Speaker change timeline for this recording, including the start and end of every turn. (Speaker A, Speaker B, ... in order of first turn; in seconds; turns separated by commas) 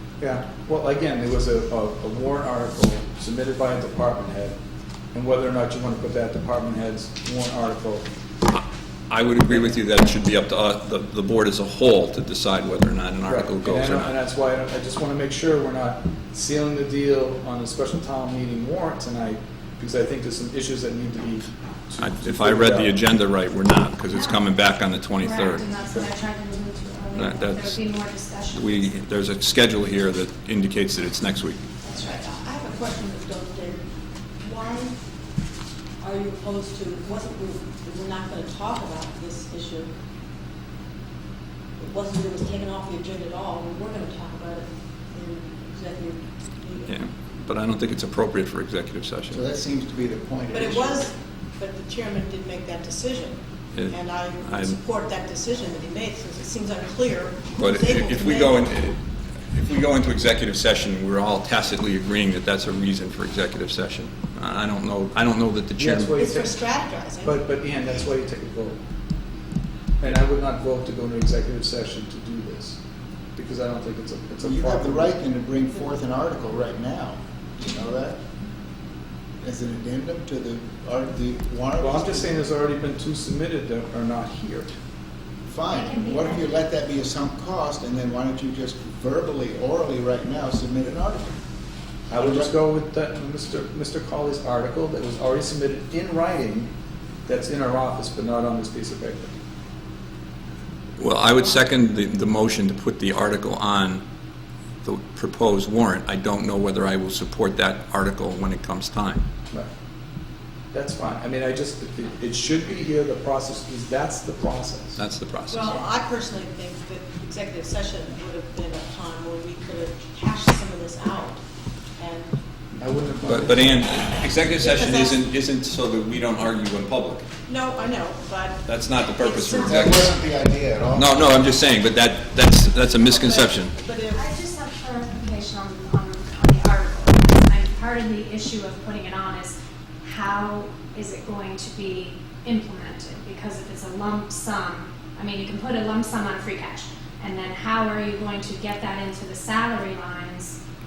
Speaker A: 0.2-4.5, Speaker A: 5.1-8.1, Speaker B: 8.5-14.1, Speaker A: 13.2-23.0, Speaker B: 22.0-26.0, Speaker C: 24.1-24.4, Speaker C: 25.2-28.9, Speaker B: 27.1-27.8, Speaker B: 28.5-31.6, Speaker D: 31.8-33.9, Speaker D: 34.4-35.0, Speaker D: 36.0-39.9, Speaker D: 41.8-46.9, Speaker B: 46.9-49.4, Speaker E: 49.3-51.0, Speaker D: 50.5-58.7, Speaker B: 53.8-54.8, Speaker B: 57.5-59.0, Speaker B: 59.5-66.1, Speaker A: 65.7-66.6, Speaker D: 66.1-67.4, Speaker A: 67.2-68.8, Speaker A: 70.0-72.8, Speaker A: 73.3-75.2, Speaker E: 74.4-78.2, Speaker E: 79.4-82.4, Speaker A: 81.8-84.7, Speaker E: 85.5-91.4, Speaker C: 85.7-86.5, Speaker A: 92.1-96.7, Speaker E: 92.2-92.5, Speaker A: 97.2-99.4, Speaker B: 101.0-104.0, Speaker B: 104.8-109.2, Speaker A: 110.7-115.0, Speaker B: 115.0-115.7, Speaker D: 115.5-121.4, Speaker D: 122.0-122.4, Speaker A: 122.7-123.8, Speaker B: 123.2-127.3, Speaker D: 124.5-125.2, Speaker D: 127.5-130.0, Speaker B: 128.6-130.1, Speaker E: 129.6-131.5, Speaker B: 130.9-133.7, Speaker D: 133.1-134.3, Speaker C: 134.1-150.6